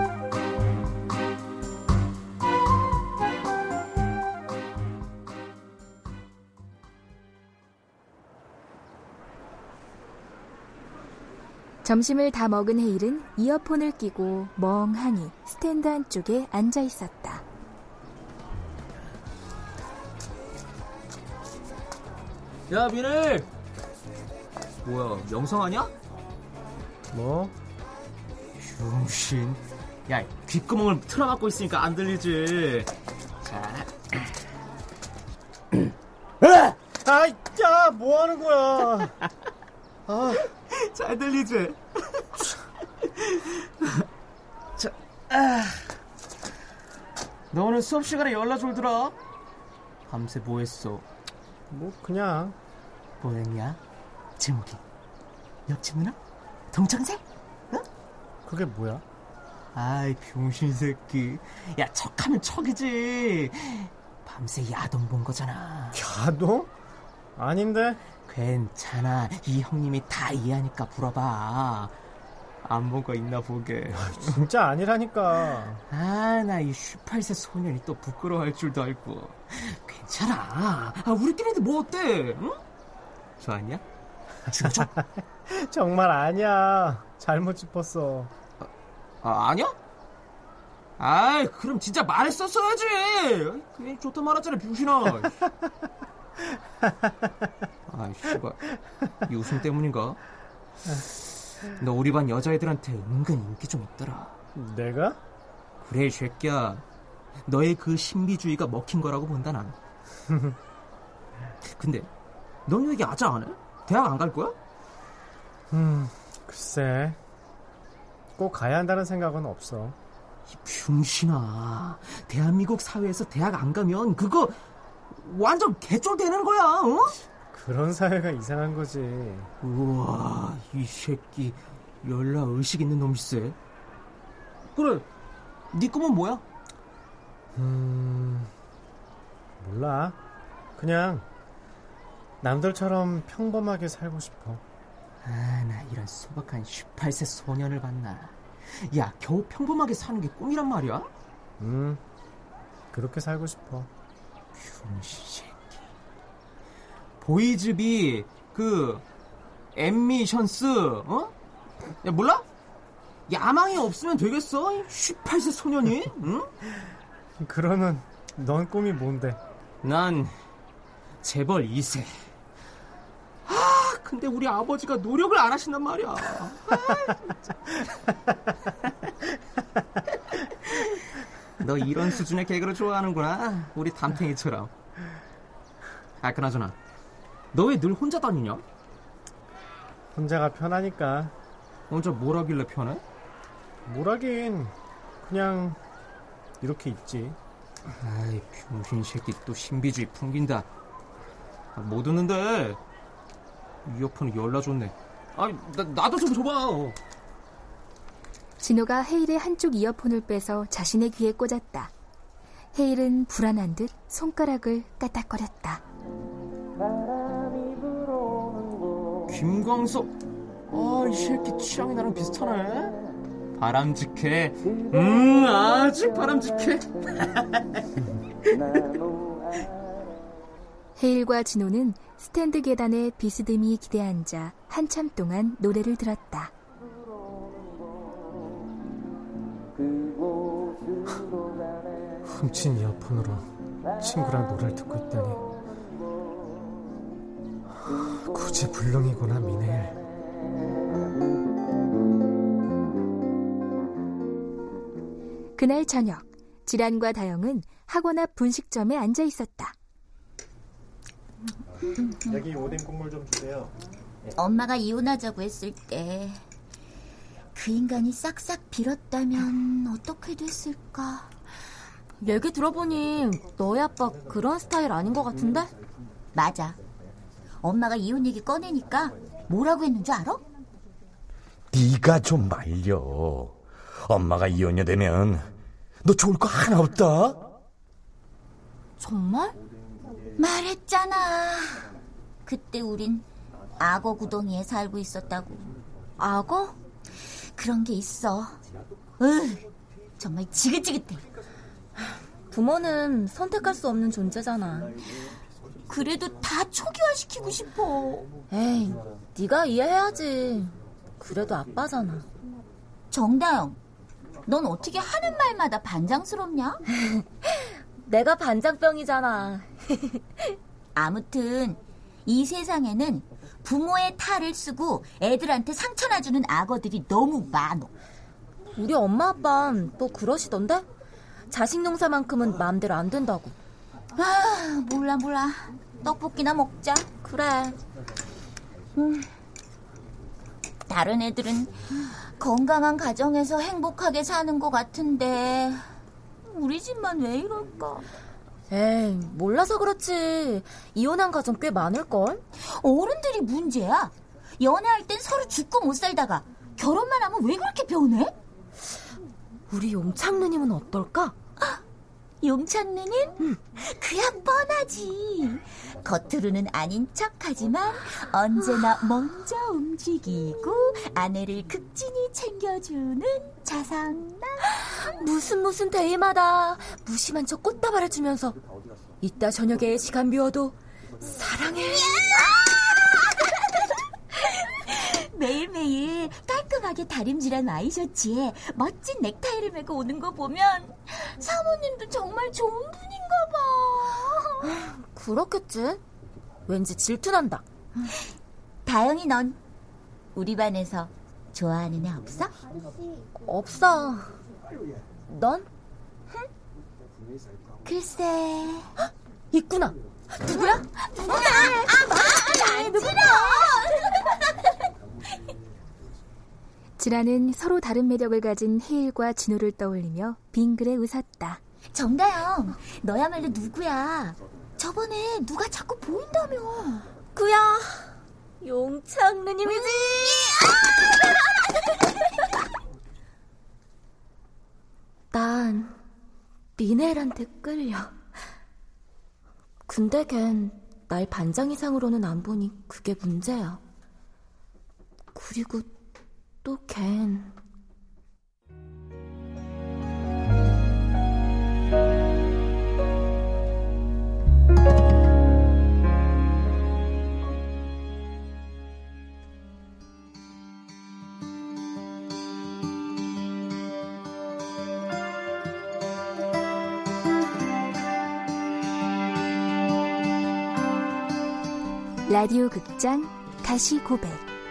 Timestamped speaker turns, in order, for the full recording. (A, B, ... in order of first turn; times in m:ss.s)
0:11.8-0:17.4 A
0:22.7-0:23.5 B
0:24.8-0:25.9 B
0:27.1-0:27.5 C
0:28.6-0:32.9 B
0:33.4-0:33.9 B
0:37.0-0:39.2 C
0:40.1-0:40.4 C
0:40.4-0:41.8 B
0:44.8-0:45.8 B
0:47.5-0:49.1 B
0:50.1-0:51.0 B
0:51.7-0:52.6 C
0:53.2-0:53.8 B
0:54.4-0:54.8 B
0:55.7-0:56.2 B
0:56.7-0:57.8 B
0:58.4-0:59.0 C
0:59.7-1:06.0 B
1:05.9-1:06.7 C
1:07.4-1:08.0 C
1:08.3-1:11.9 B
1:12.6-1:14.4 B
1:13.9-1:15.8 C
1:15.9-1:22.6 B
1:23.4-1:23.8 B
1:24.5-1:24.9 B
1:24.7-1:28.3 C
1:29.2-1:29.7 B
1:31.0-1:35.4 B
1:37.9-1:40.2 B
1:41.8-1:44.3 B
1:44.5-1:45.2 C
1:45.8-1:46.8 B
1:47.4-1:49.8 B
1:50.3-1:50.6 C
1:51.6-1:52.1 B
1:52.6-1:54.6 B
1:55.7-1:57.2 C
1:58.4-2:00.0 C
2:00.5-2:04.6 B
2:05.1-2:07.2 B
2:07.5-2:09.5 C
2:09.6-2:13.6 B
2:14.7-2:15.0 B
2:15.7-2:16.4 B
2:17.6-2:18.5 C
2:19.6-2:20.2 C
2:20.8-2:21.2 C
2:22.4-2:24.6 C
2:25.2-2:31.1 B
2:31.6-2:32.0 C
2:32.9-2:33.9 C
2:34.6-2:35.6 B
2:37.2-2:39.0 B
2:39.8-2:41.3 B
2:42.0-2:42.4 B
2:43.3-2:46.5 B
2:47.4-2:49.4 C
2:49.8-2:50.4 B
2:51.2-2:52.2 B
2:53.4-2:57.2 B
3:01.6-3:04.7 B
3:06.2-3:06.7 B
3:07.5-3:08.6 B
3:10.1-3:11.3 C
3:11.9-3:13.0 B
3:13.9-3:15.8 C
3:16.6-3:17.4 C
3:18.0-3:20.6 B
3:21.8-3:22.8 B
3:23.8-3:27.0 B
3:28.6-3:31.9 A
3:32.7-3:35.8 A
3:39.3-3:40.1 B
3:40.7-3:43.0 B
3:43.6-3:47.6 B
3:51.0-3:56.5 A
4:02.2-4:05.4 C
4:08.1-4:10.0 C
4:15.6-4:19.7 A
4:22.0-4:22.8 D
4:24.4-4:26.4 D
4:27.5-4:31.3 D
4:32.2-4:35.7 E
4:36.3-4:36.8 D
4:37.6-4:40.4 D
4:41.7-4:45.5 F
4:46.0-4:47.4 F
4:49.0-4:49.6 E
4:50.4-4:51.9 D
4:52.4-4:55.7 D
4:56.2-4:56.8 E
4:57.5-4:58.6 D
4:59.2-4:59.7 D
5:00.2-5:01.2 D
5:02.5-5:05.0 E
5:05.9-5:08.3 D
5:08.5-5:12.3 E
5:13.1-5:13.8 D
5:14.5-5:16.8 D
5:17.0-5:20.6 E
5:20.9-5:27.9 D
5:28.8-5:30.8 E
5:31.5-5:33.6 E
5:34.1-5:37.1 D
5:37.2-5:37.8 E
5:39.0-5:39.3 D
5:40.9-5:45.8 D
5:46.5-5:48.1 D
5:48.7-5:52.4 E
5:52.5-5:58.4 D
5:59.7-6:01.3 E
6:02.4-6:14.6 D
6:15.0-6:18.6 E
6:19.2-6:22.4 E
6:22.0-6:23.1 D
6:24.6-6:34.8 D
6:34.7-6:36.0 E
6:36.7-6:37.6 E
6:38.0-6:38.3 D
6:38.8-6:39.6 D
6:40.3-6:42.5 D
6:43.4-6:44.4 E
6:45.3-6:45.7 E
6:47.8-6:48.9 D
6:49.5-6:50.8 E
6:50.4-6:54.7 D
6:52.6-6:53.1 E
6:57.0-7:01.6 A
7:01.9-7:07.1 D
7:07.3-7:10.2 E
7:09.6-7:11.2 D
7:15.3-7:16.0 E
7:16.8-7:18.1 E
7:19.9-7:23.8 E
7:25.3-7:25.9 E
7:26.6-7:27.5 E
7:52.3-7:54.4 A